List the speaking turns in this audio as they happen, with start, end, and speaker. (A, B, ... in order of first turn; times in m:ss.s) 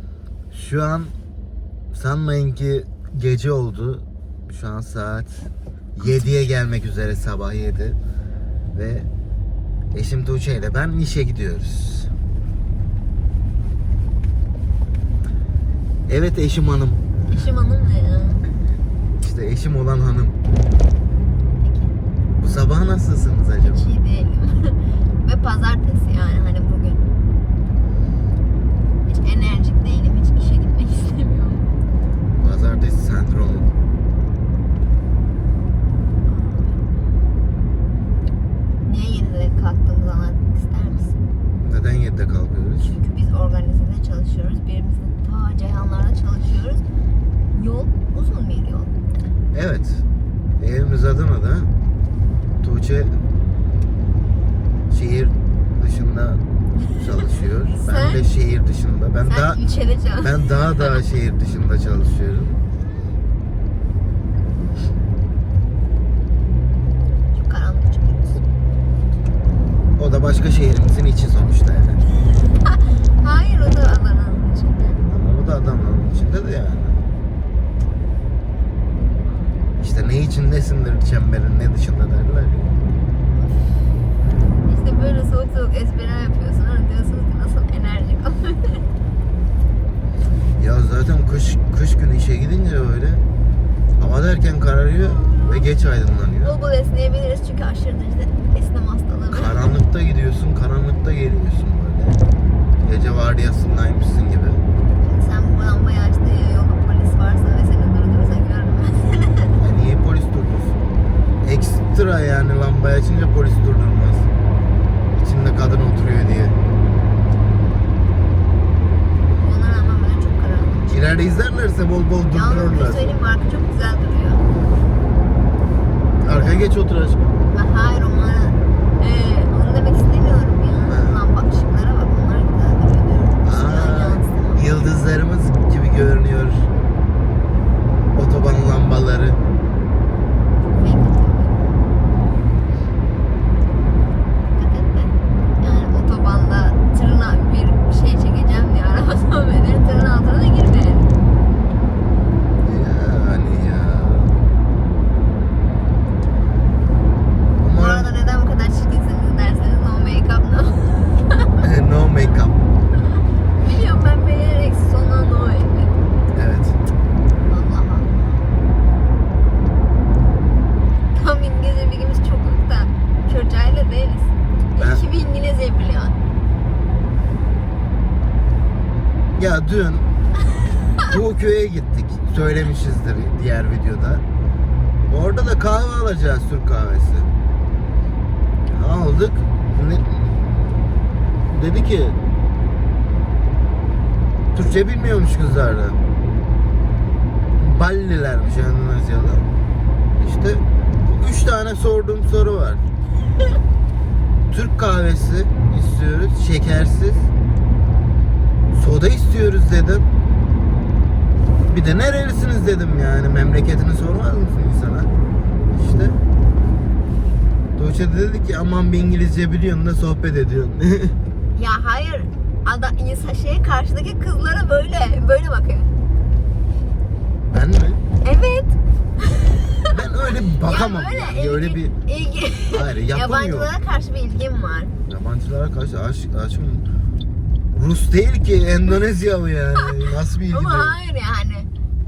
0:00.5-0:01.1 A
0:01.9-0:08.0 A
0:06.0-0:06.5 B
0:08.7-0:09.1 A
0:09.9-0:12.1 A
0:16.1-0:17.0 A
0:17.3-0:18.4 B
0:19.2-0:20.4 A
0:21.6-0:21.9 B
0:22.4-0:23.9 A
0:23.6-0:27.0 B
0:29.1-0:31.7 B
0:32.4-0:33.7 A
0:36.3-0:36.9 B
0:38.8-0:41.2 B
0:41.6-0:43.0 A
0:42.8-0:46.8 B
0:47.5-0:48.9 B
0:49.5-0:50.0 A
0:50.6-0:51.7 A
0:52.6-0:53.2 A
0:54.9-0:56.4 A
0:56.9-0:59.6 A
0:57.7-0:58.3 B
0:59.2-1:01.0 B
1:00.2-1:02.6 A
1:07.3-1:08.4 B
1:10.0-1:12.0 A
1:12.6-1:15.0 B
1:15.1-1:17.1 A
1:19.8-1:22.8 A
1:23.3-1:23.8 B
1:24.6-1:28.8 B
1:30.6-1:33.2 A
1:34.0-1:36.6 A
1:35.0-1:35.7 B
1:36.4-1:39.7 B
1:39.3-1:42.2 A
1:42.8-1:44.6 A
1:45.0-1:49.6 B
1:49.6-1:50.8 A
1:51.4-1:54.3 A
1:55.2-1:56.6 A
1:59.4-2:00.9 B
2:00.9-2:03.2 A
2:02.3-2:04.4 B
2:06.2-2:07.3 A
2:07.5-2:14.6 B
2:10.9-2:11.2 A
2:13.4-2:16.7 A
2:18.1-2:19.4 A
2:20.7-2:21.9 B
2:24.6-2:31.1 B
2:32.6-2:34.4 A
2:37.6-2:38.1 A
2:37.7-2:41.5 B
2:41.6-2:42.7 A
2:43.6-2:45.9 B
2:46.3-2:46.8 A
2:47.5-2:48.5 B
2:51.1-2:56.2 B
2:54.8-2:55.0 A
2:59.4-3:00.1 A
3:01.0-3:04.2 A
3:05.1-3:07.3 A
3:08.7-3:10.5 A
3:11.5-3:12.2 A
3:14.5-3:16.0 A
3:17.6-3:19.5 A
3:20.2-3:22.8 A
3:24.5-3:27.3 A
3:28.7-3:30.1 A
3:31.7-3:35.1 A
3:35.7-3:36.2 A
3:37.8-3:41.2 A
3:41.6-3:45.9 B
3:47.5-3:48.0 A
3:48.2-3:49.8 B
3:49.9-3:52.0 A
3:50.6-3:54.9 B
3:52.7-3:53.7 A
3:55.1-3:56.9 A
3:57.7-4:01.0 A
3:59.8-4:01.7 B